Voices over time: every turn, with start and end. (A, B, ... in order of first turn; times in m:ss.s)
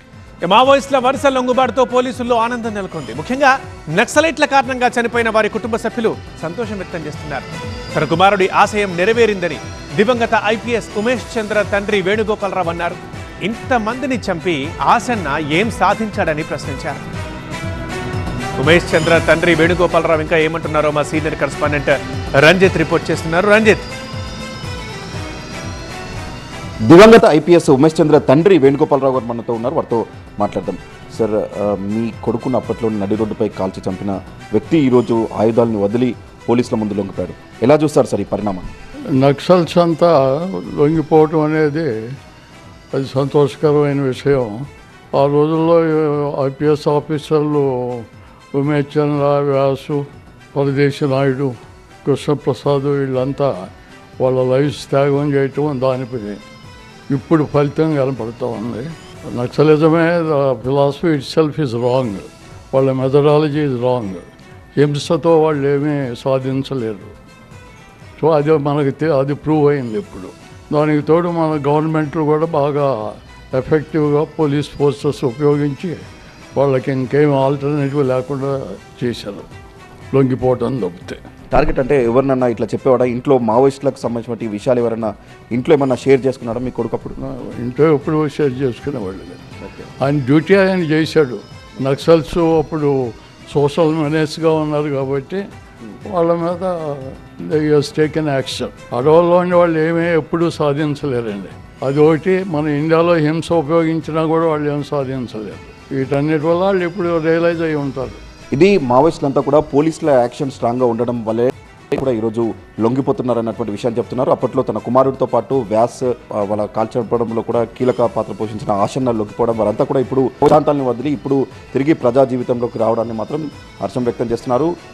0:00.4-0:17.0 A
0:18.6-0:23.9 A
0:26.9-0:38.7 B
0:39.2-0:41.9 C
0:42.9-0:44.6 C
0:45.1-0:56.4 C
0:57.1-1:07.2 C
1:08.2-1:16.0 C
1:16.6-1:19.5 C
1:20.1-1:21.2 C
1:21.5-1:27.2 B
1:27.2-1:29.4 C
1:30.0-1:33.0 C
1:33.5-1:35.4 C
1:36.0-1:48.2 C
1:48.5-2:04.7 B